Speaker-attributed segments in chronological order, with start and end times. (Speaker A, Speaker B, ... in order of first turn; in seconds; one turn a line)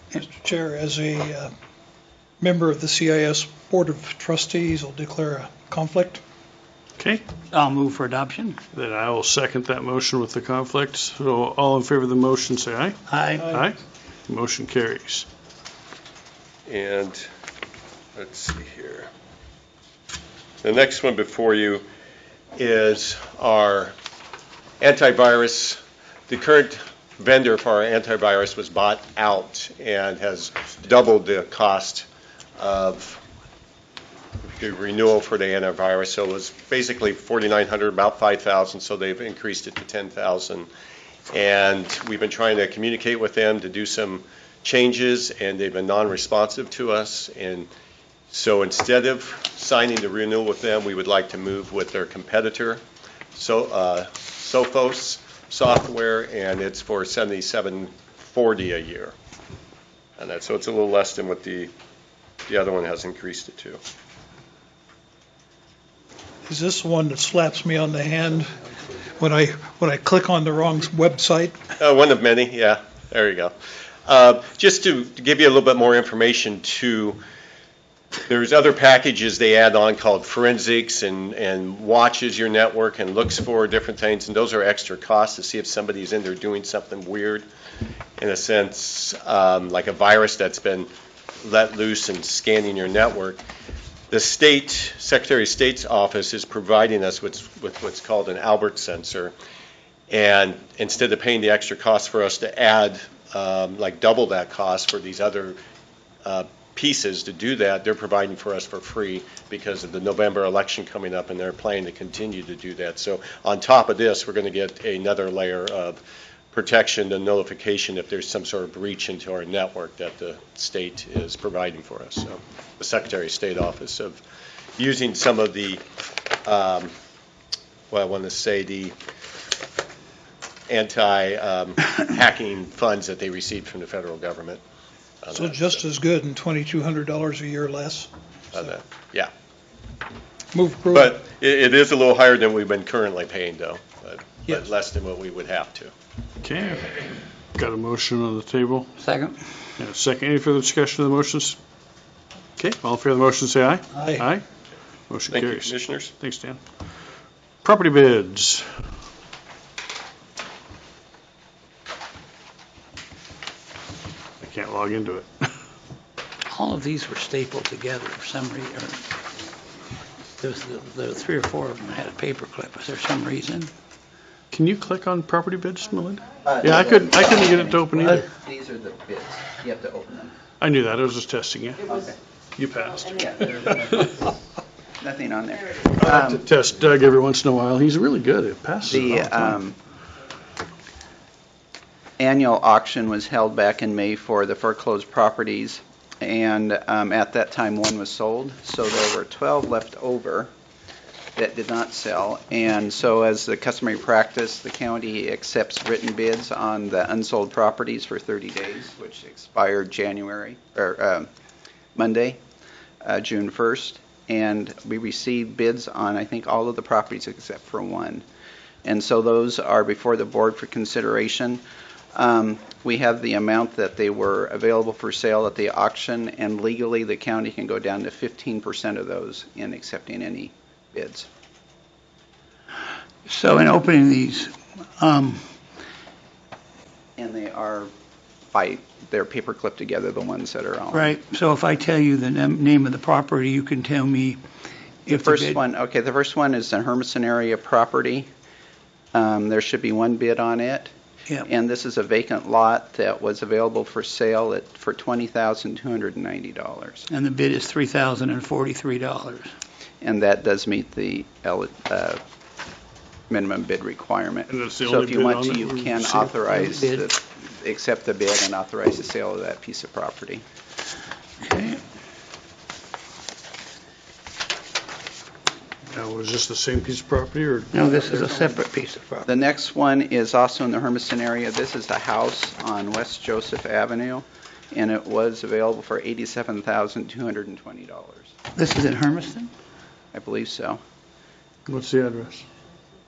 Speaker A: 0.1-1.5
Speaker A: 2.4-6.2
Speaker B: 7.0-7.2
Speaker C: 7.5-8.6
Speaker B: 8.7-13.8
Speaker C: 13.1-13.5
Speaker A: 13.4-13.7
Speaker B: 14.3-15.3
Speaker D: 16.7-17.2
Speaker D: 18.2-19.1
Speaker D: 20.6-21.9
Speaker D: 22.6-23.9
Speaker D: 24.8-32.1
Speaker D: 32.6-33.2
Speaker D: 34.4-40.7
Speaker D: 41.3-47.7
Speaker D: 48.3-52.8
Speaker D: 53.3-59.1
Speaker D: 60.2-61.7
Speaker D: 62.5-63.8
Speaker A: 66.5-71.6
Speaker D: 71.8-73.5
Speaker D: 74.1-77.2
Speaker D: 78.3-87.5
Speaker D: 88.2-90.9
Speaker D: 91.4-93.4
Speaker D: 94.1-99.3
Speaker D: 100.1-105.6
Speaker D: 106.2-116.0
Speaker D: 116.5-124.2
Speaker D: 124.8-125.8
Speaker D: 126.5-126.9
Speaker D: 127.9-129.0
Speaker D: 130.7-134.6
Speaker D: 135.2-135.8
Speaker A: 135.3-138.1
Speaker D: 138.5-139.3
Speaker A: 140.5-141.2
Speaker D: 140.9-145.9
Speaker B: 146.4-148.9
Speaker C: 149.0-149.4
Speaker B: 149.8-151.6
Speaker B: 152.6-154.4
Speaker A: 153.9-154.3
Speaker B: 155.1-156.6
Speaker D: 155.3-156.1
Speaker B: 157.6-158.7
Speaker B: 164.4-165.5
Speaker C: 166.5-169.1
Speaker C: 170.4-173.7
Speaker B: 174.5-178.3
Speaker E: 176.4-180.3
Speaker B: 180.6-181.9
Speaker E: 181.9-182.2
Speaker B: 182.6-184.1
Speaker E: 183.2-183.5
Speaker E: 185.0-186.5
Speaker B: 185.9-189.6
Speaker E: 188.8-189.8
Speaker E: 192.2-200.5
Speaker E: 201.4-211.3
Speaker E: 211.9-212.4
Speaker E: 213.0-218.2
Speaker E: 218.8-221.6
Speaker E: 222.1-231.3
Speaker C: 233.3-235.4
Speaker E: 237.2-237.9
Speaker E: 238.5-241.1
Speaker C: 240.9-244.4
Speaker C: 245.1-245.6
Speaker E: 245.1-248.3
Speaker E: 249.1-250.9
Speaker E: 251.4-257.1
Speaker C: 257.1-259.5
Speaker E: 260.0-262.2
Speaker E: 263.3-270.4
Speaker B: 264.5-266.3
Speaker C: 266.5-267.1
Speaker C: 271.4-271.8
Speaker B: 275.9-277.8
Speaker C: 277.7-279.3
Speaker E: 277.9-278.6
Speaker E: 279.2-288.3
Speaker C: 288.6-289.5
Speaker E: 290.1-290.8
Speaker B: 291.7-292.5